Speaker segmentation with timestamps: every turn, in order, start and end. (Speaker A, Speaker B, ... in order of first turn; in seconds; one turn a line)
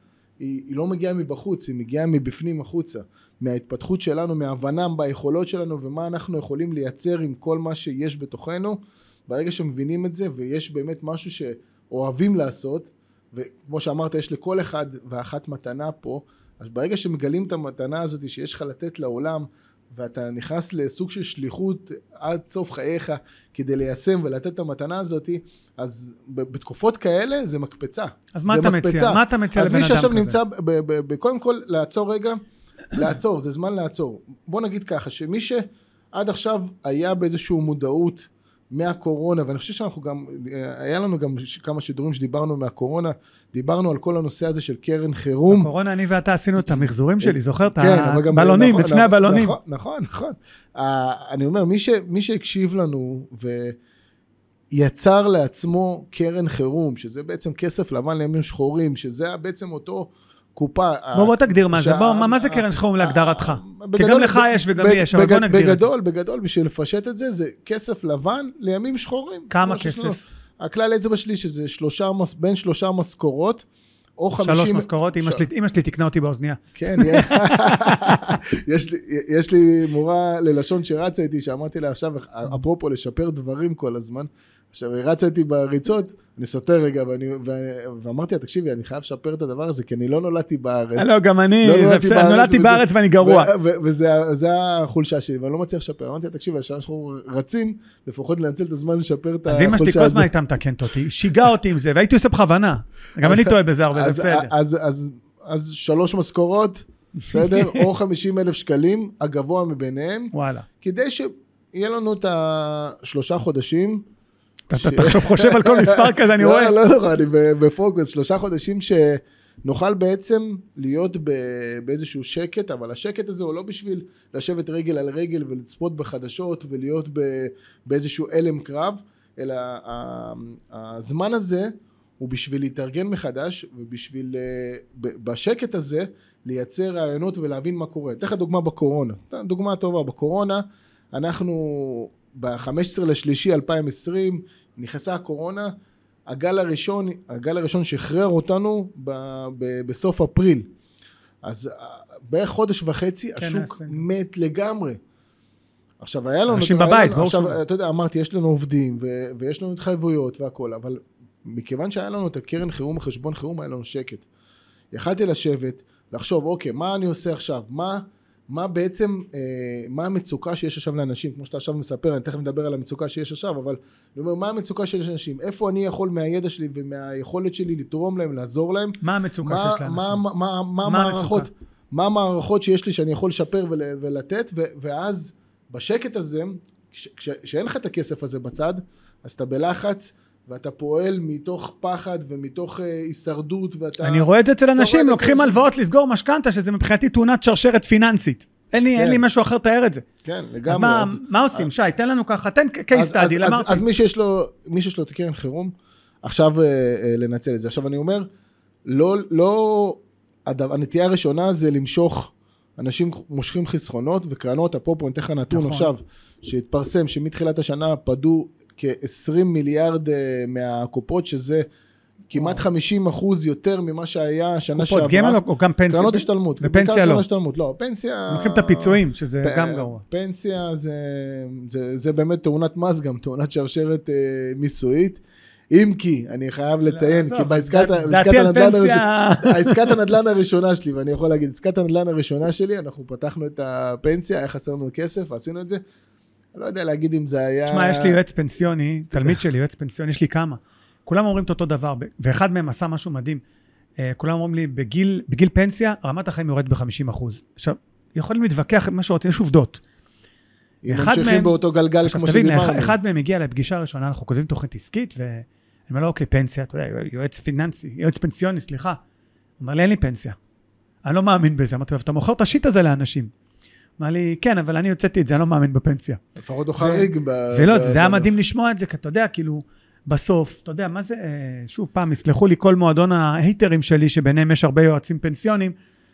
Speaker A: 0.4-32.4
Speaker B: 28.3-30.4
Speaker A: 32.9-45.7
Speaker B: 45.5-49.5
Speaker A: 46.6-53.8
Speaker A: 54.7-73.7
Speaker B: 61.1-65.9
Speaker B: 69.5-70.2
Speaker A: 74.2-75.4
Speaker B: 74.4-77.9
Speaker A: 76.8-100.3
Speaker B: 91.0-93.5
Speaker B: 99.5-104.5
Speaker A: 103.2-114.0
Speaker B: 107.3-107.8
Speaker B: 110.3-110.7
Speaker B: 114.7-116.7
Speaker A: 114.8-145.7
Speaker A: 146.3-150.7
Speaker A: 151.4-155.0
Speaker B: 153.4-154.0
Speaker A: 156.0-164.2
Speaker B: 156.5-157.6
Speaker A: 164.9-195.7
Speaker B: 179.0-180.2
Speaker B: 180.8-181.5
Speaker B: 194.0-200.0
Speaker A: 198.9-199.2
Speaker A: 200.2-201.7
Speaker B: 200.7-203.8
Speaker A: 202.9-205.7
Speaker A: 206.2-208.2
Speaker A: 208.9-221.6
Speaker B: 215.5-215.9
Speaker A: 222.3-245.8
Speaker B: 222.4-222.6
Speaker B: 224.8-227.2
Speaker B: 228.3-230.0
Speaker B: 236.9-239.9
Speaker A: 246.5-248.2
Speaker B: 247.7-253.4
Speaker B: 254.0-259.8
Speaker A: 260.8-262.9
Speaker B: 260.9-261.5
Speaker B: 262.0-269.0
Speaker B: 269.6-270.4
Speaker B: 271.0-273.3
Speaker B: 274.0-276.2
Speaker A: 276.4-278.3
Speaker B: 276.8-285.7